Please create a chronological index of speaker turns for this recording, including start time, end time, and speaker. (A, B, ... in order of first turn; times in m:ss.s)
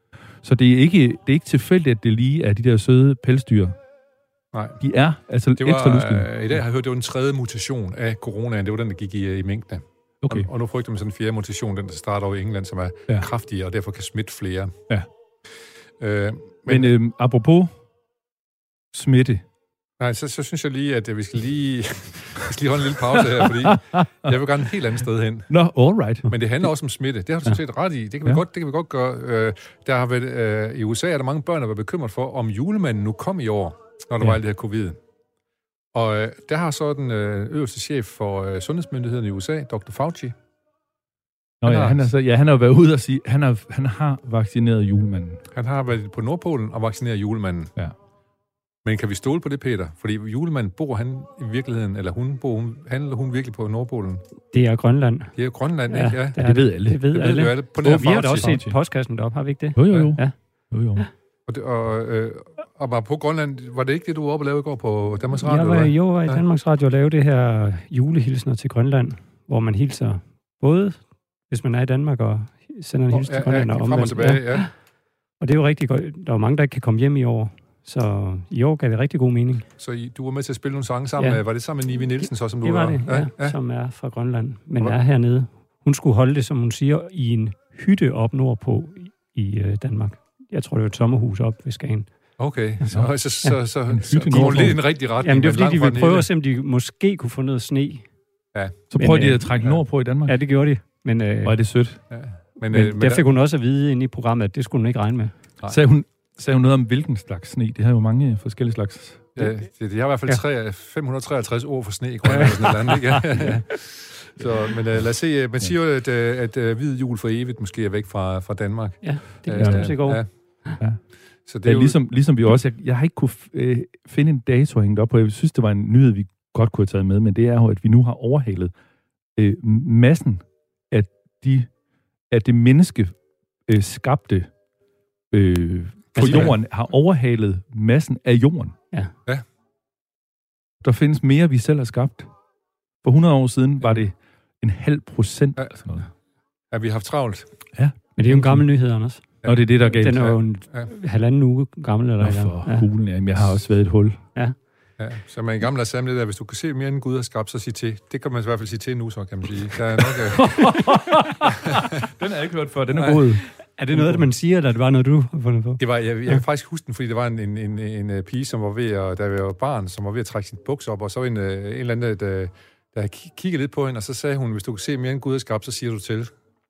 0:00.4-0:03.8 A
0:04.5-0:04.8 B
0:04.8-0:06.3 A
0:05.6-0:14.8 B
0:10.2-0:10.5 A
0:16.0-0:16.9 B
0:16.7-0:17.7 A
0:18.9-0:19.4 A
0:20.0-0:25.5 B
0:23.3-0:24.4 A
0:25.5-0:26.4 A
0:26.3-0:35.0 B
0:35.9-0:40.3 B
0:41.6-0:45.4 A
0:41.6-0:42.1 B
0:45.5-0:47.7 B
0:48.8-0:54.2 B
0:54.5-0:55.3 C
0:55.3-0:56.4 B
0:55.9-1:00.3 C
0:56.4-0:57.4 A
0:57.1-0:58.6 B
0:58.0-0:58.8 A
0:59.7-1:01.0 A
1:01.5-1:06.4 B
1:05.4-1:14.7 C
1:13.1-1:14.7 B
1:15.4-1:19.6 C
1:19.8-1:23.5 B
1:21.2-1:21.4 C
1:22.6-1:32.1 C
1:32.4-1:36.3 B
1:32.9-1:33.5 C
1:33.9-1:34.8 A
1:34.3-1:38.0 C
1:38.5-1:39.8 B
1:38.9-1:40.4 A
1:39.0-1:39.5 C
1:40.2-1:41.6 C
1:41.4-1:42.0 A
1:42.1-1:43.2 B
1:42.7-1:45.3 C
1:45.7-1:49.3 A
1:49.4-2:00.2 B
1:52.3-1:53.4 C
1:59.0-2:00.8 C
1:59.6-2:00.0 A
2:01.4-2:02.0 B
2:01.6-2:08.7 A
2:09.4-2:11.7 A
2:12.3-2:13.1 A
2:13.7-2:14.5 A
2:15.3-2:18.7 A
2:16.1-2:16.6 B
2:20.8-2:22.3 A
2:23.0-2:26.1 A
2:26.7-2:27.5 B
2:27.7-2:28.6 A
2:28.2-2:29.3 C
2:29.4-2:30.9 B
2:29.4-2:30.3 A
2:29.8-2:32.9 C
2:32.2-2:34.2 A
2:35.0-2:40.9 B
2:40.0-2:44.2 A
2:41.4-2:42.0 B
2:43.8-2:46.4 C
2:45.8-2:56.3 B